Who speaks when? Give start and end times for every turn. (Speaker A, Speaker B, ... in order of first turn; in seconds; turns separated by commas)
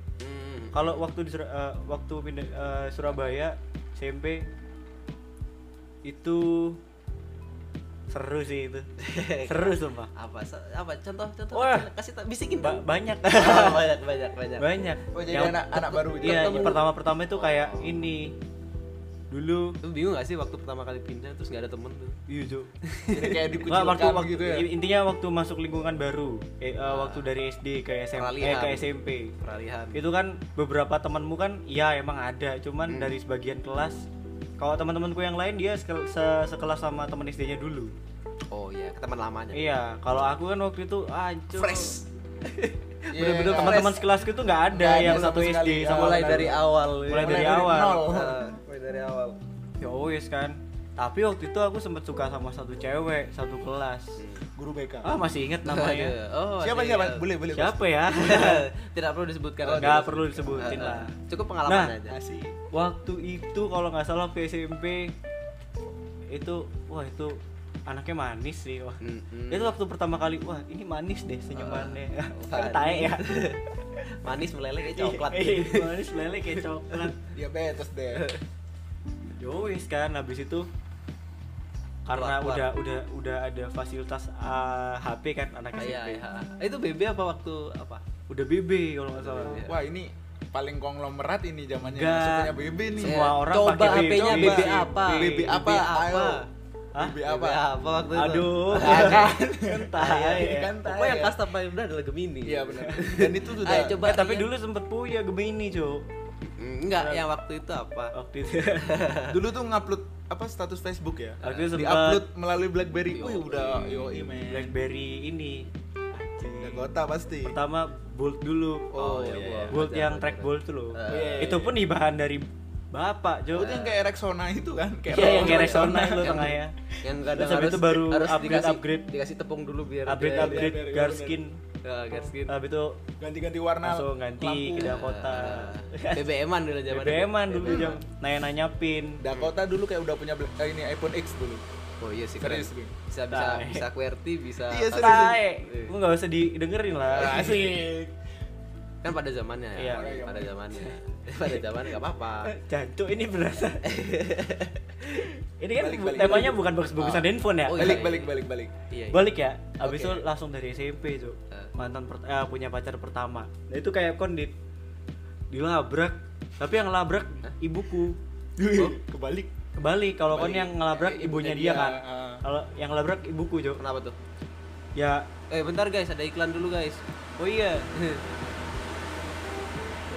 Speaker A: 0.2-1.0, Speaker B: 0.7-4.5, Speaker B: 6.0-6.8, Speaker B: 8.1-8.9, Speaker A: 9.0-14.7, Speaker B: 9.5-10.1, Speaker B: 11.5-11.9, Speaker B: 12.6-13.8, Speaker B: 14.6-18.4, Speaker C: 15.1-16.8, Speaker A: 15.7-18.0, Speaker B: 19.3-19.8, Speaker A: 19.8-22.2, Speaker B: 22.3-22.7, Speaker A: 22.8-23.5, Speaker C: 23.1-24.7, Speaker B: 23.6-29.3, Speaker A: 26.8-27.3, Speaker A: 28.1-30.0, Speaker B: 29.9-34.0, Speaker A: 32.9-33.1, Speaker B: 34.6-37.9, Speaker A: 38.5-39.7, Speaker B: 39.5-42.0, Speaker A: 41.5-44.1, Speaker C: 43.1-43.9, Speaker B: 43.2-48.1, Speaker C: 44.7-48.4, Speaker A: 44.9-49.4, Speaker B: 49.8-54.2, Speaker A: 54.2-54.5, Speaker C: 54.5-55.1, Speaker B: 55.0-56.1, Speaker A: 55.6-57.3, Speaker C: 56.6-57.9, Speaker B: 57.5-58.7, Speaker A: 58.1-62.2, Speaker C: 59.6-60.5, Speaker B: 59.8-61.1, Speaker B: 61.7-61.9, Speaker C: 62.0-62.5, Speaker B: 62.7-65.1, Speaker B: 66.3-73.4, Speaker A: 69.0-69.7, Speaker A: 71.5-73.6, Speaker A: 74.2-77.1, Speaker B: 74.9-77.2, Speaker C: 77.3-78.3, Speaker A: 78.1-78.4, Speaker B: 79.4-80.7, Speaker B: 82.0-86.2, Speaker A: 82.1-82.7, Speaker A: 85.8-88.0, Speaker B: 88.3-89.6, Speaker A: 89.2-89.8, Speaker C: 89.6-96.4, Speaker B: 91.8-95.6, Speaker A: 93.0-96.5, Speaker C: 97.0-97.6, Speaker A: 97.2-104.5, Speaker B: 98.1-100.7, Speaker C: 98.8-101.4, Speaker C: 102.4-104.0, Speaker B: 104.0-106.0, Speaker A: 106.5-108.1, Speaker B: 107.0-107.2, Speaker B: 108.1-108.9, Speaker A: 108.8-109.4, Speaker C: 109.3-114.7, Speaker A: 111.4-111.7, Speaker B: 111.4-112.2, Speaker A: 113.1-114.1, Speaker B: 114.5-116.9, Speaker C: 116.6-117.6, Speaker B: 117.4-119.0, Speaker A: 118.9-121.6, Speaker C: 118.9-119.8, Speaker B: 119.7-123.7, Speaker C: 121.1-121.8, Speaker A: 123.5-124.0, Speaker C: 123.5-126.5, Speaker B: 125.1-126.8, Speaker A: 125.1-130.8, Speaker B: 127.3-129.1, Speaker B: 130.1-131.6, Speaker C: 130.3-131.4, Speaker A: 131.8-132.6, Speaker B: 132.5-133.0, Speaker C: 133.2-135.0, Speaker B: 133.8-136.2, Speaker A: 134.7-138.0, Speaker B: 136.9-139.2, Speaker C: 137.7-137.9, Speaker C: 139.2-141.6, Speaker A: 142.0-145.9, Speaker C: 142.4-142.9, Speaker B: 143.3-143.8, Speaker C: 144.7-145.4, Speaker B: 144.9-147.8, Speaker C: 147.1-148.1, Speaker A: 149.0-152.5, Speaker B: 149.8-150.1, Speaker C: 149.9-150.5, Speaker B: 152.4-153.8, Speaker A: 153.8-155.2, Speaker B: 155.6-158.0, Speaker C: 155.8-156.6, Speaker A: 156.2-158.3, Speaker C: 157.7-158.7, Speaker A: 158.9-160.2, Speaker B: 159.1-164.5, Speaker B: 165.5-168.2, Speaker C: 168.6-169.5, Speaker B: 169.8-173.8, Speaker C: 170.3-172.4, Speaker A: 173.8-174.2, Speaker B: 174.9-175.3, Speaker A: 175.5-177.0, Speaker B: 177.4-177.9, Speaker A: 177.9-178.2